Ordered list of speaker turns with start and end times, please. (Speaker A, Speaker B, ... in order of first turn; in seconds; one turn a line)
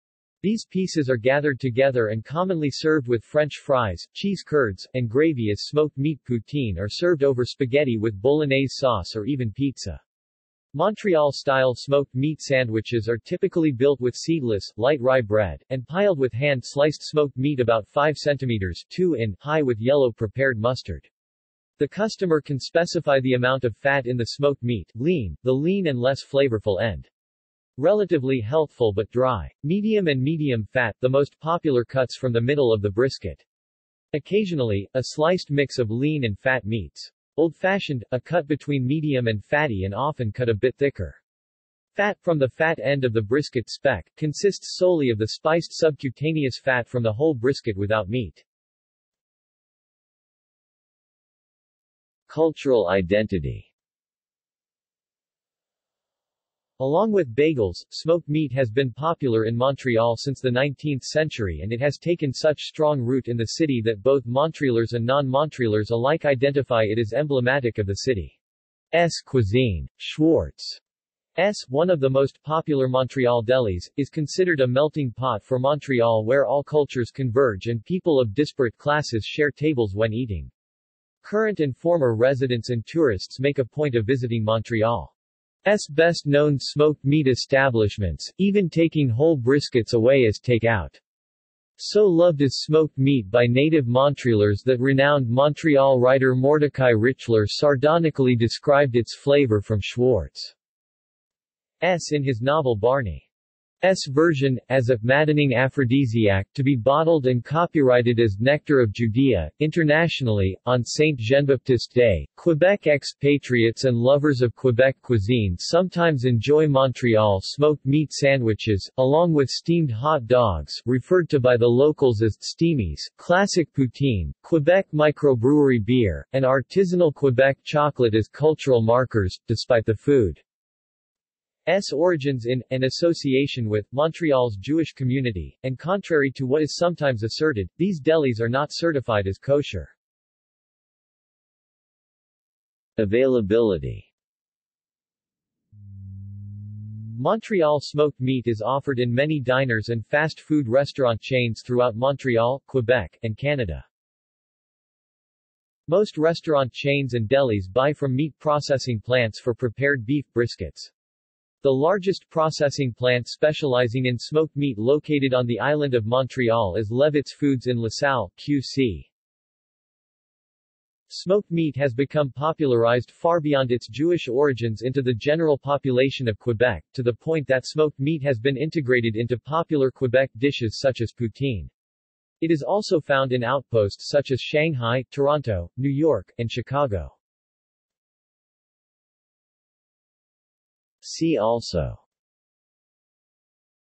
Speaker A: 0.4-10.0
Speaker A: 10.7-21.1
Speaker A: 21.8-27.1
Speaker A: 27.8-33.4
Speaker A: 34.1-41.2
Speaker A: 42.0-48.5
Speaker A: 52.3-53.7
Speaker A: 56.8-68.4
Speaker A: 68.9-70.8
Speaker A: 71.4-80.5
Speaker A: 81.2-85.1
Speaker A: 85.7-91.0
Speaker A: 91.8-100.5
Speaker A: 101.8-103.3
Speaker A: 103.8-130.4
Speaker A: 131.7-139.9
Speaker A: 143.0-144.1
Speaker A: 147.0-153.9
Speaker A: 155.9-160.9
Speaker A: 161.6-169.1
Speaker A: 171.1-181.7
Speaker A: 182.4-187.2
Speaker A: 191.0-192.0